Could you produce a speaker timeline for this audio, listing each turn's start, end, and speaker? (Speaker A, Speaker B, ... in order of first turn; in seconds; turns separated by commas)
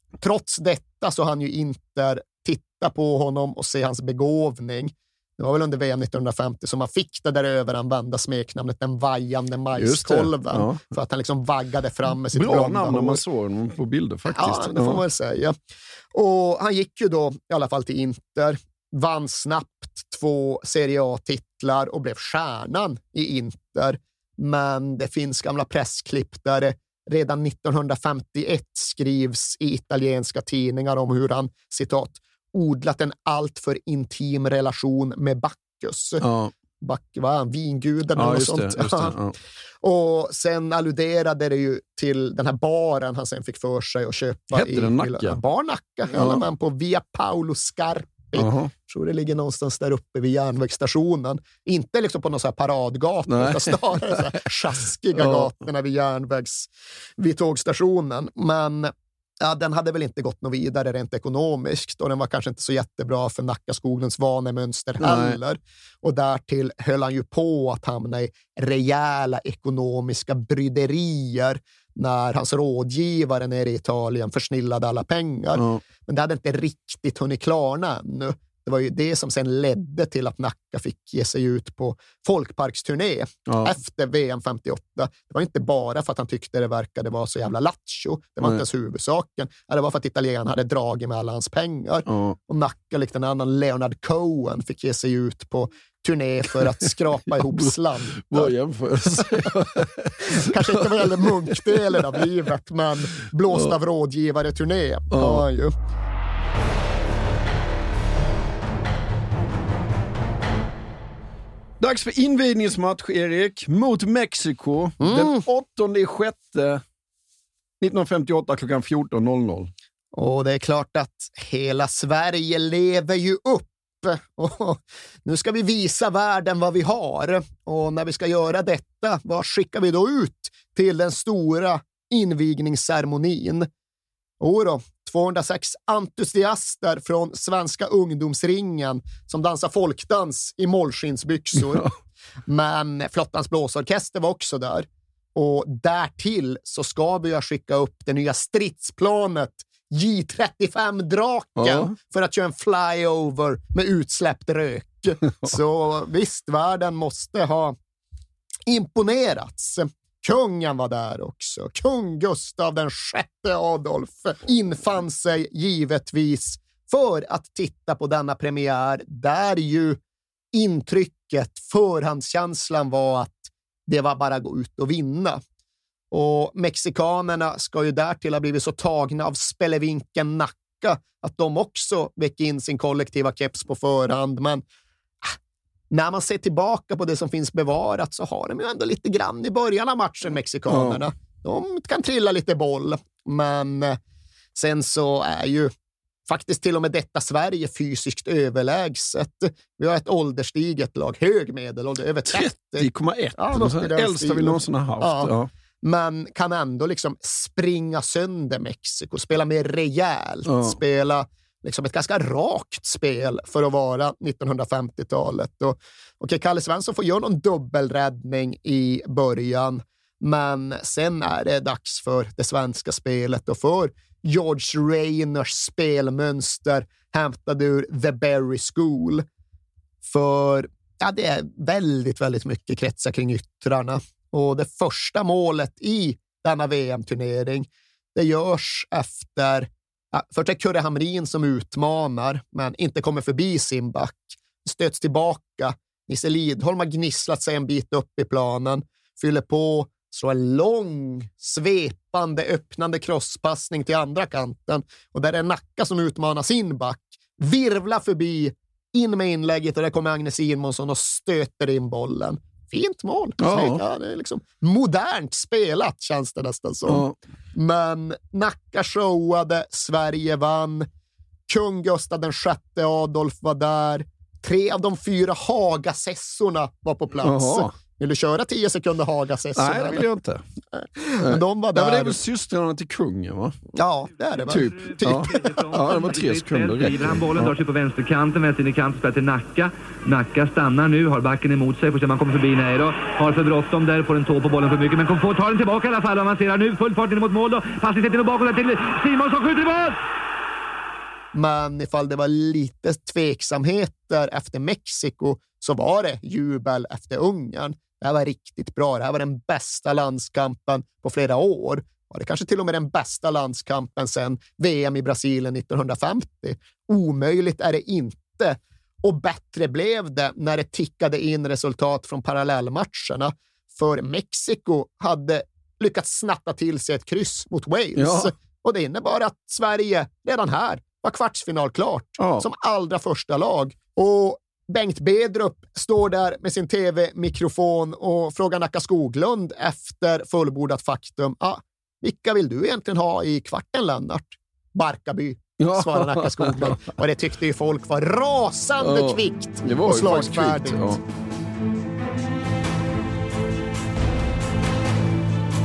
Speaker A: 0.2-13.2, Speaker B: 9.8-10.9, Speaker B: 12.1-15.0, Speaker A: 14.3-15.6, Speaker A: 16.1-36.2, Speaker B: 36.2-36.5, Speaker A: 36.8-39.2, Speaker B: 38.1-39.4, Speaker A: 39.8-98.5, Speaker B: 44.5-45.4, Speaker B: 46.1-46.4, Speaker B: 48.4-48.7, Speaker B: 53.3-54.5, Speaker B: 55.1-55.5, Speaker B: 65.0-65.4, Speaker B: 75.5-75.8, Speaker B: 83.5-83.8, Speaker B: 92.1-92.4, Speaker B: 97.3-102.3, Speaker A: 100.2-105.7, Speaker B: 103.5-103.8, Speaker B: 105.1-105.5, Speaker B: 111.8-116.8, Speaker A: 115.0-115.4, Speaker B: 117.8-119.7, Speaker A: 120.1-133.7, Speaker A: 134.4-141.9, Speaker B: 141.5-141.9, Speaker A: 142.5-157.8, Speaker B: 151.6-151.9, Speaker A: 158.7-170.0, Speaker A: 170.5-175.4, Speaker A: 176.1-184.6, Speaker A: 185.9-194.0, Speaker B: 190.7-191.0, Speaker A: 194.6-195.7, Speaker A: 196.3-229.2, Speaker B: 202.3-205.5, Speaker B: 210.5-210.8, Speaker A: 230.0-270.9, Speaker B: 263.4-263.8, Speaker B: 266.9-267.2, Speaker A: 271.5-280.1, Speaker B: 277.2-277.7, Speaker B: 279.6-280.4, Speaker A: 280.7-282.2, Speaker B: 281.2-283.6, Speaker A: 283.7-285.5, Speaker B: 284.5-287.6, Speaker C: 284.5-300.0, Speaker A: 301.3-351.0, Speaker B: 328.0-328.3, Speaker B: 332.2-332.5, Speaker B: 345.6-346.8, Speaker B: 348.8-351.0